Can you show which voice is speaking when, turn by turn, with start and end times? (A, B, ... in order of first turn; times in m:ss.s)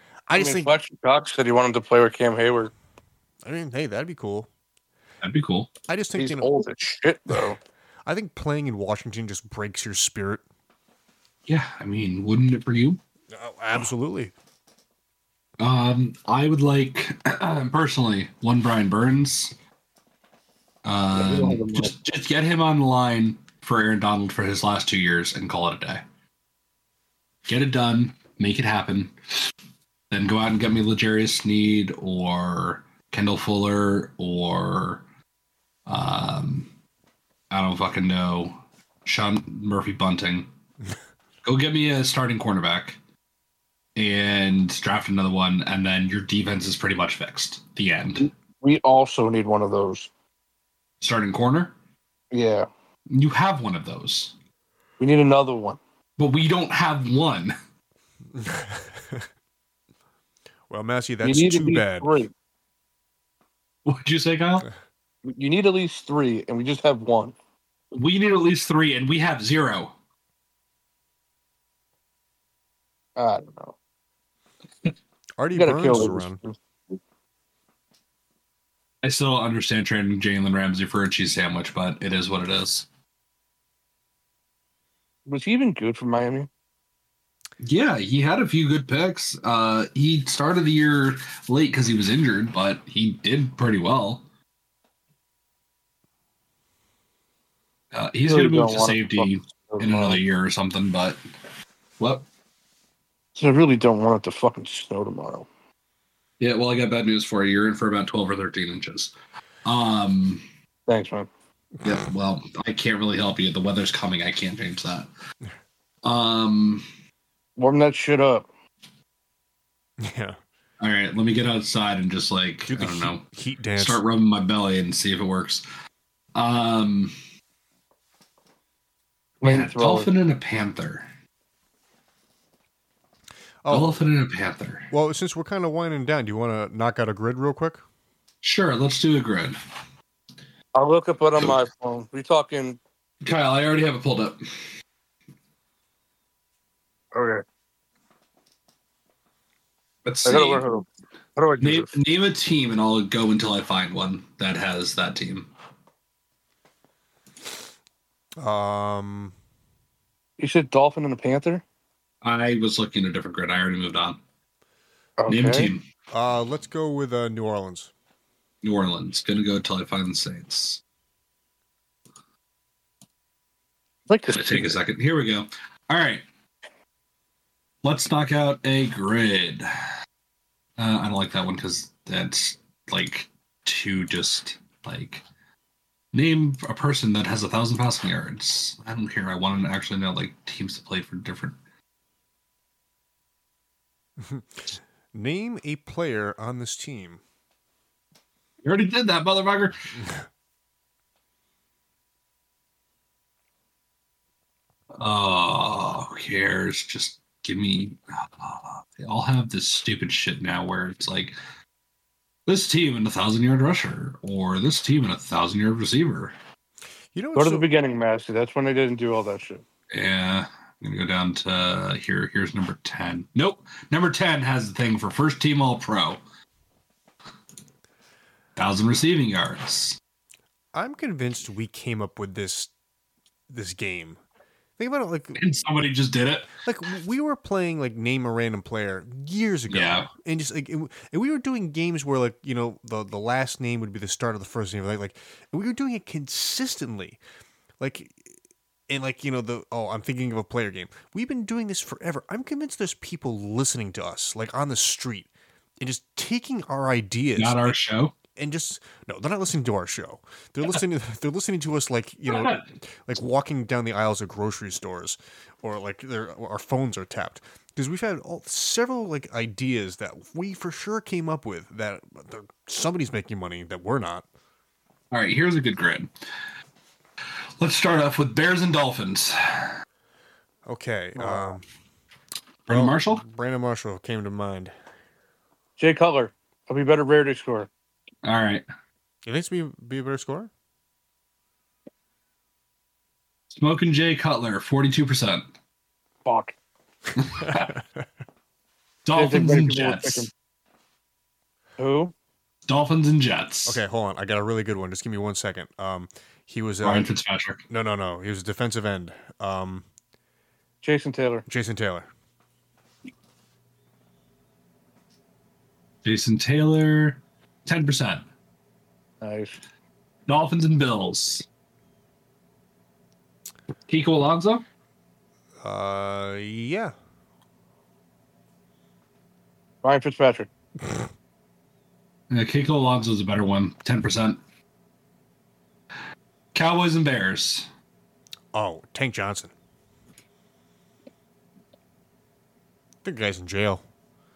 0:00.3-0:00.7 A
0:00.4-0:02.7 B
0:03.4-0:04.5 A
0:05.2-0:05.7 C
0:05.9-0:06.5 A
0:06.2-0:07.6 B
0:08.1-0:10.4 A
0:11.5-0:13.0 C
0:13.3-0:14.3 A
0:15.6-0:19.5 C
0:20.8-0:26.0 C
0:21.1-0:21.9 B
0:27.5-0:29.1 C
0:30.1-0:35.0 C
0:35.9-0:36.7 C
0:37.5-0:40.5 C
0:41.4-0:43.0 C
0:44.0-0:48.3 C
0:48.2-0:50.1 B
0:51.0-0:51.7 C
0:52.3-0:52.7 B
0:53.1-0:54.3 C
0:55.0-0:55.8 B
0:56.2-0:57.6 C
0:58.4-0:59.3 A
1:00.7-1:02.2 A
1:01.2-1:02.3 B
1:03.8-1:04.7 C
1:05.2-1:07.4 B
1:07.9-1:10.0 C
1:13.2-1:13.8 B
1:15.4-1:16.4 A
1:15.6-1:16.6 B
1:19.0-1:22.9 C
1:25.3-1:26.5 B
1:27.6-1:34.2 C
1:37.9-1:41.2 C
1:38.2-1:40.2 B
1:42.0-1:42.2 C
1:43.4-1:45.5 B
1:46.4-1:49.1 C
1:49.6-1:50.4 C
1:50.9-1:51.3 B
1:51.8-1:55.1 C
1:56.0-1:56.8 C
1:57.6-1:58.5 B
2:00.0-2:00.4 A
2:00.8-2:03.2 C
2:02.7-2:04.0 A
2:03.8-2:05.6 C
2:06.3-2:07.1 C
2:09.4-2:10.1 B
2:09.4-2:11.1 C
2:13.6-2:14.0 A
2:13.7-2:14.9 C
2:14.9-2:17.8 A
2:18.4-2:19.6 C
2:20.8-2:22.8 B
2:23.2-2:24.4 C
2:27.1-2:27.4 B
2:30.0-2:30.6 C
2:30.2-2:30.8 B
2:31.4-2:31.9 B
2:31.6-2:35.5 C
2:38.4-2:39.3 A
2:40.4-2:41.6 B
2:42.2-2:44.2 C
2:45.2-2:45.7 B
2:45.3-2:45.8 C
2:46.1-2:47.9 A
2:48.6-2:50.8 C
2:54.1-2:54.8 B
2:54.3-2:56.2 C
2:57.8-2:59.7 C
3:00.8-3:05.2 C
3:06.1-3:11.6 C
3:14.2-3:17.2 A
3:18.6-3:19.8 C
3:24.9-3:31.4 C
3:32.5-3:36.4 C
3:37.1-3:37.7 A
3:37.4-3:39.6 B
3:39.9-3:46.2 C
3:48.6-3:50.0 C
3:50.7-3:52.7 A
3:53.5-3:54.2 A
3:54.8-3:55.4 A
3:55.4-3:56.5 C
3:56.6-4:07.2 A
3:59.7-4:00.1 C
4:07.8-4:08.2 A
4:08.9-4:17.8 A
4:17.4-4:18.1 C
4:18.3-4:34.3 A
4:22.3-4:22.6 C
4:35.1-4:36.1 C
4:37.6-4:39.8 C
4:40.7-4:41.6 A
4:41.2-4:41.5 B
4:42.7-4:43.2 C
4:42.7-4:44.7 A
4:45.8-4:47.7 B
4:48.2-4:48.6 C
4:49.2-4:50.5 A
4:53.5-4:55.5 C
4:56.3-4:56.6 B
4:57.2-4:57.7 C
4:57.4-4:57.8 A
4:59.0-5:00.3 C
4:59.1-5:00.3 B
5:01.8-5:02.1 B
5:02.7-5:03.8 C
5:03.7-5:07.1 A
5:06.8-5:07.6 C
5:07.7-5:09.8 A
5:10.8-5:11.4 B
5:11.5-5:12.1 A
5:16.0-5:18.2 C
5:19.2-5:19.6 B
5:20.3-5:21.5 C
5:23.9-5:24.6 C
5:25.6-5:26.9 A
5:29.8-5:30.5 B
5:32.3-5:34.4 C
5:36.5-5:37.7 C
5:38.5-5:39.5 A
5:43.0-5:43.8 A